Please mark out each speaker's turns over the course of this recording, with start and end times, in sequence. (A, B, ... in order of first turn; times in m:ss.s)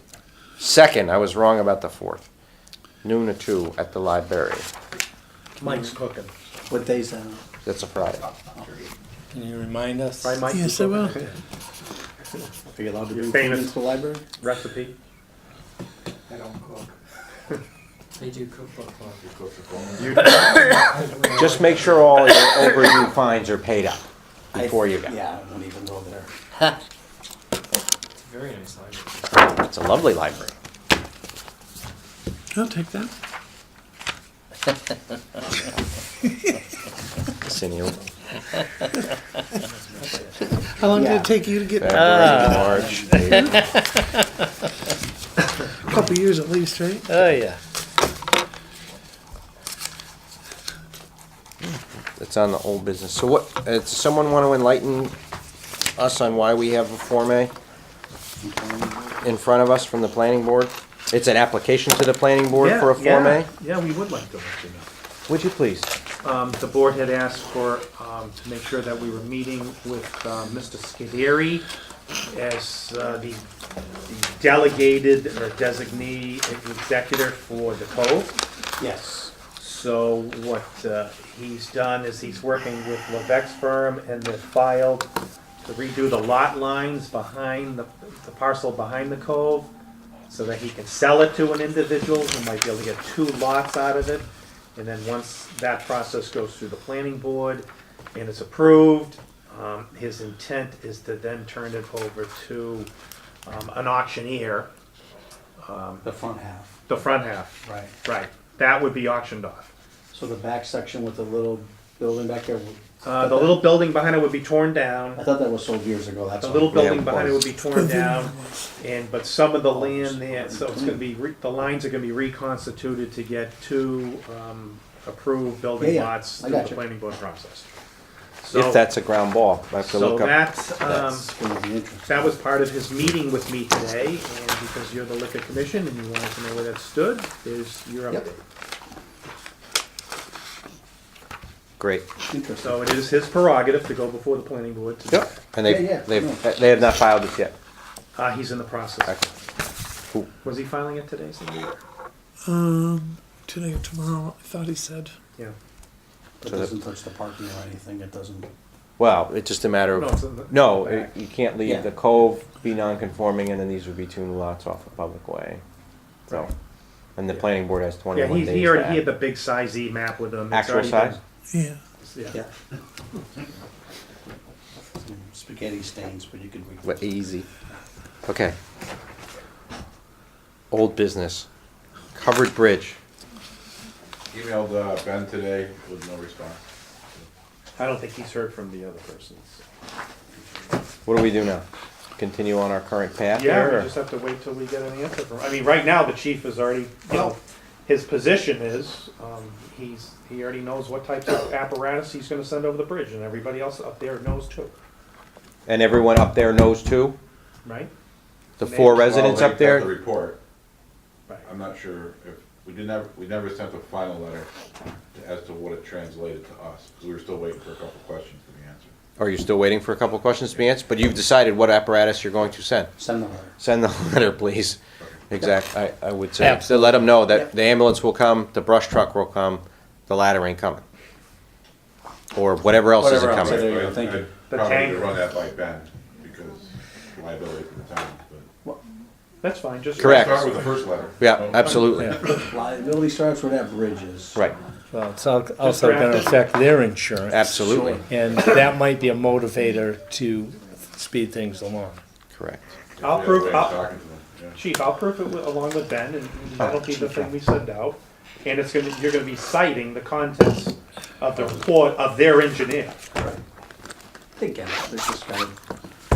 0:00.6-0:02.2 A
0:03.0-0:04.7 A
0:05.6-0:06.3 B
0:06.7-0:07.4 C
0:07.6-0:08.3 A
0:09.3-0:10.3 D
0:10.2-0:11.4 B
0:10.5-0:11.2 E
0:12.7-0:14.2 C
0:13.1-0:13.8 B
0:14.4-0:15.0 B
0:16.3-0:17.0 D
0:18.2-0:19.2 D
0:19.2-0:20.6 F
0:20.1-0:22.2 D
0:21.3-0:25.1 A
0:24.5-0:26.3 C
0:28.2-0:29.4 D
0:29.4-0:30.5 A
0:32.6-0:33.1 E
0:37.3-0:38.0 A
0:40.8-0:41.5 C
0:40.8-0:42.0 E
0:41.7-0:43.7 A
0:41.9-0:43.8 D
0:42.6-0:42.9 C
0:43.3-0:43.6 E
0:45.9-0:47.2 E
0:47.1-0:47.6 D
0:51.6-0:55.1 A
0:56.0-0:57.5 A
0:58.4-0:59.2 C
0:59.2-1:03.5 A
1:02.6-1:04.9 B
1:05.3-1:05.9 A
1:06.2-1:11.7 B
1:12.3-1:13.4 B
1:14.1-1:18.4 B
1:18.8-1:19.3 C
1:19.6-1:25.1 B
1:25.6-1:29.7 B
1:30.3-1:42.9 B
1:43.4-1:44.7 B
1:45.6-1:46.0 B
1:46.0-1:46.7 C
1:46.9-1:49.7 B
1:47.6-1:47.9 C
1:50.1-1:53.8 C
1:53.0-1:55.2 B
1:55.2-1:57.4 C
1:56.4-2:07.7 B
1:56.7-1:57.1 A
1:57.7-1:58.6 E
1:59.7-2:01.0 C
2:05.8-2:06.8 C
2:08.4-2:08.8 B
2:08.5-2:11.0 A
2:09.8-2:11.3 B
2:11.0-2:12.4 C
2:12.1-2:18.4 B
2:21.8-2:22.1 A
2:22.3-2:22.8 C
2:22.6-2:25.3 B
2:25.1-2:27.6 A
2:25.6-2:26.4 C
2:28.2-2:29.2 B
2:30.4-2:31.8 B
2:32.4-2:35.1 E
2:36.4-2:38.5 C
2:36.5-2:36.7 A
2:39.0-2:45.6 A
2:39.9-2:41.1 B
2:41.6-2:41.9 C
2:46.3-2:46.5 A
2:47.2-2:49.1 A
2:48.1-2:51.2 B
2:50.5-2:51.2 A
2:51.5-2:51.8 E
2:52.0-2:52.4 B
2:55.0-2:57.0 C
2:56.8-2:57.5 A
2:58.2-2:58.6 A
3:00.7-3:01.5 A
3:02.2-3:03.0 A
3:04.3-3:06.6 F
3:07.8-3:09.6 B
3:11.1-3:11.6 A
3:12.2-3:13.9 A
3:13.3-3:24.8 B
3:25.7-3:27.2 A
3:27.6-3:27.9 B
3:28.6-3:29.9 A
3:28.6-3:29.2 B
3:28.9-3:30.4 F
3:31.4-3:34.5 F
3:35.1-3:38.9 F
3:39.2-3:42.9 A
3:43.0-3:43.6 C
3:43.6-3:50.8 A
3:46.4-3:47.0 D
3:47.2-3:47.5 C
3:52.3-3:53.7 A
3:53.0-3:54.3 C
3:53.3-3:58.5 F
3:54.5-3:55.2 B
3:59.4-4:00.8 B
3:59.9-4:02.2 F
4:00.0-4:00.5 A
4:01.2-4:02.2 A
4:02.2-4:04.4 C
4:04.9-4:07.5 D
4:05.6-4:06.5 B
4:07.3-4:08.0 A
4:07.4-4:08.4 C
4:08.1-4:12.0 D
4:12.3-4:12.6 A
4:13.0-4:14.6 F
4:13.0-4:13.9 B
4:14.5-4:23.0 B
4:16.6-4:17.3 A
4:23.2-4:23.4 C
4:24.4-4:25.6 C